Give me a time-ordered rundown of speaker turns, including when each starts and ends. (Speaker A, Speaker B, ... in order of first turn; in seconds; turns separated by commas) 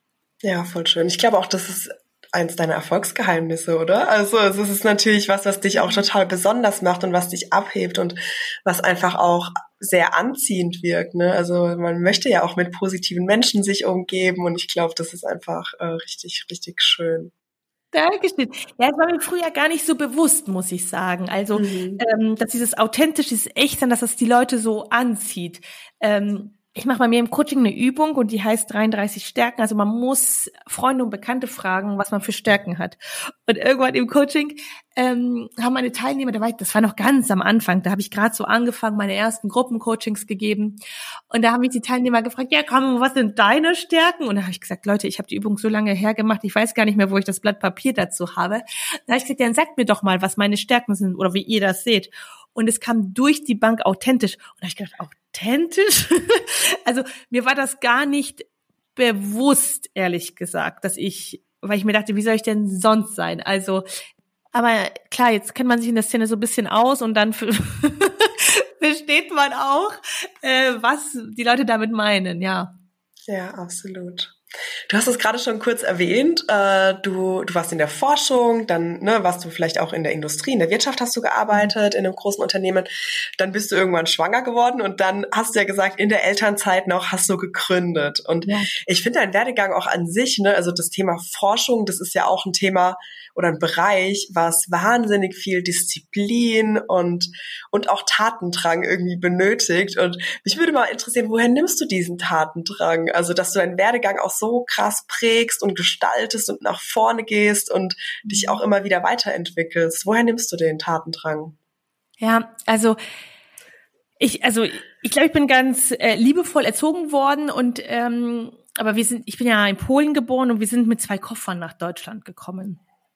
Speaker A: 0.4-17.3, Speaker B: 17.9-40.8, Speaker A: 21.6-22.0, Speaker B: 41.3-63.8, Speaker B: 64.5-72.7, Speaker A: 73.3-74.4, Speaker A: 74.9-111.6, Speaker B: 88.4-88.7, Speaker B: 108.3-108.6, Speaker B: 112.2-113.0, Speaker B: 114.2-122.8